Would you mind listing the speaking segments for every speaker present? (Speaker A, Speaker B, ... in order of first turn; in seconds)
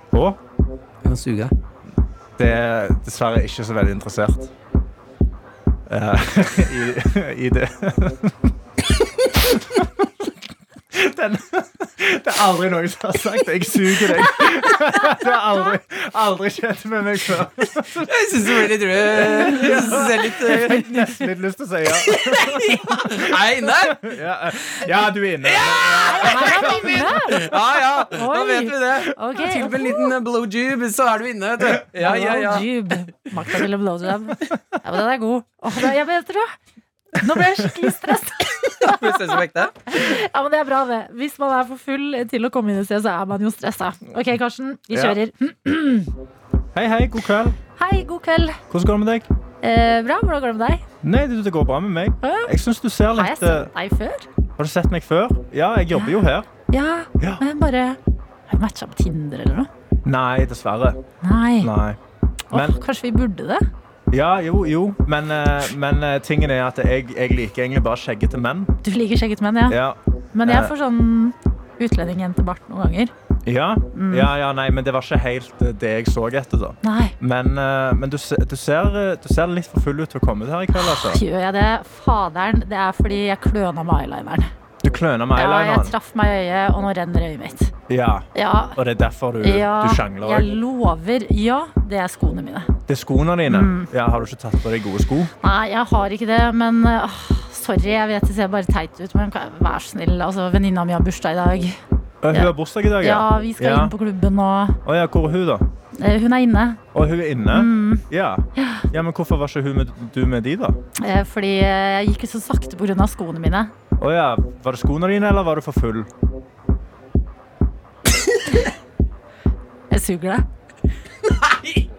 Speaker A: 0.1-0.4, 2.4-4.5, 5.9-8.5, 9.5-10.1, 10.9-27.2, 44.9-45.2, 46.8-47.6, 48.7-49.3, 51.0-53.7, 54.6-56.5, 60.0-61.0, 61.6-62.0, 62.5-62.8, 64.1-68.7, 69.7-70.7, 73.5-81.2, 84.8-85.9, 87.9-90.5, 92.9-95.3, 102.2-103.9, 104.8-105.7, 106.9-110.8, 114.0-116.1
Speaker B: 1.0-1.5, 18.1-21.2, 21.9-24.2, 25.4-32.7, 38.8-39.8, 121.4-121.8
Speaker C: 26.1-30.1, 32.0-36.5, 37.2-39.3, 39.9-46.1, 47.8-48.6, 49.6-50.8, 52.2-52.5, 53.1-54.3, 56.7-58.0, 58.5-59.7, 61.2-61.7, 62.5-63.7, 68.8-69.8, 70.3-73.1, 73.9-74.3, 76.8-77.2, 80.8-84.5, 85.3-87.7, 88.3-88.8, 89.4-92.7, 93.5-93.9, 95.4-101.8, 102.3-104.8, 106.0-106.8, 107.5-108.9, 111.0-113.7, 119.9-120.5